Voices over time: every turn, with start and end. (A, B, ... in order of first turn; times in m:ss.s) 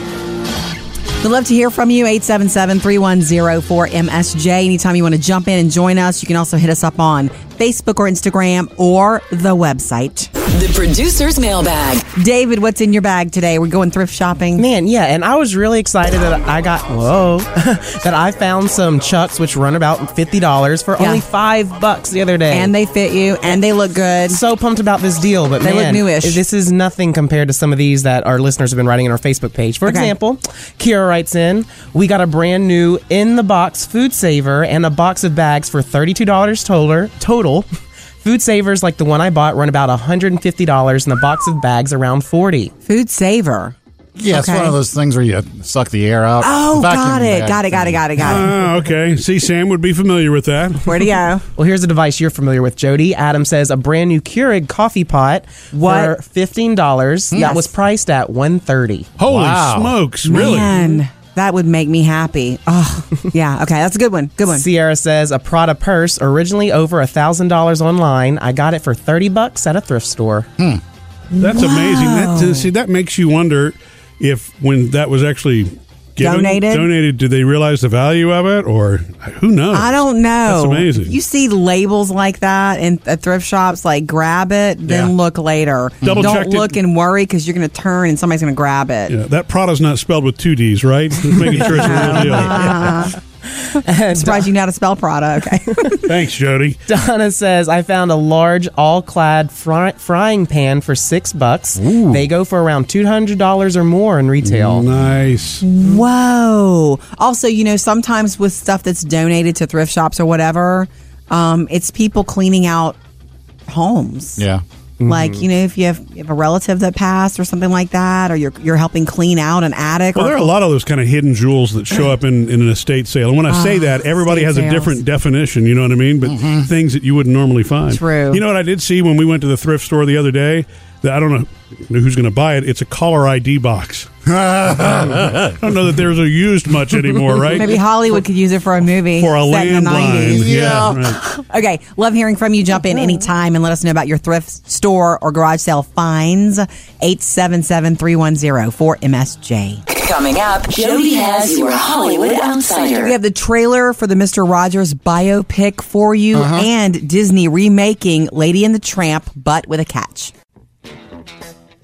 0:01.2-0:10.3 A
0:10.4-0:12.0 B
0:12.1-0:14.6 A
0:14.6-0:22.7 C
0:21.0-0:21.2 A
0:22.5-0:24.4 A
0:24.3-0:37.6 C
0:25.6-0:26.4 A
0:29.8-0:30.1 A
0:38.2-0:42.7 C
0:42.9-0:43.7 A
0:44.2-0:48.3 D
0:44.3-0:44.8 A
0:46.4-0:48.5 A
0:48.2-0:51.1 E
0:50.8-0:51.4 A
0:51.6-0:59.1 C
0:55.7-0:56.2 A
0:57.3-0:57.7 A
0:59.2-1:00.7 E
0:59.2-1:00.0 D
1:00.2-1:04.6 A
1:04.5-1:10.5 C
1:11.3-1:12.7 A
1:11.4-1:21.1 E
1:16.2-1:16.9 A
1:19.7-1:29.1 A
1:26.0-1:26.3 D
1:26.0-1:26.7 E
1:29.1-1:33.0 E
1:31.8-1:33.1 A
1:33.7-1:34.5 C
1:34.1-1:36.0 A
1:36.0-1:36.8 E
1:36.9-1:44.8 C
1:41.8-1:42.3 D
1:44.4-1:45.6 E
1:45.6-1:53.0 A
1:53.7-1:54.4 A
1:54.4-1:54.6 D
1:55.0-1:55.4 C
1:55.0-2:00.4 A
2:00.1-2:14.1 E
2:03.5-2:05.0 A
2:06.2-2:06.7 D
2:07.9-2:08.4 A
2:14.2-2:15.6 D
2:15.6-2:17.8 E
2:17.5-2:29.8 A
2:19.2-2:21.2 E
2:20.3-2:21.1 D
2:29.9-2:33.2 B
2:33.0-2:40.3 A
2:36.3-2:36.7 D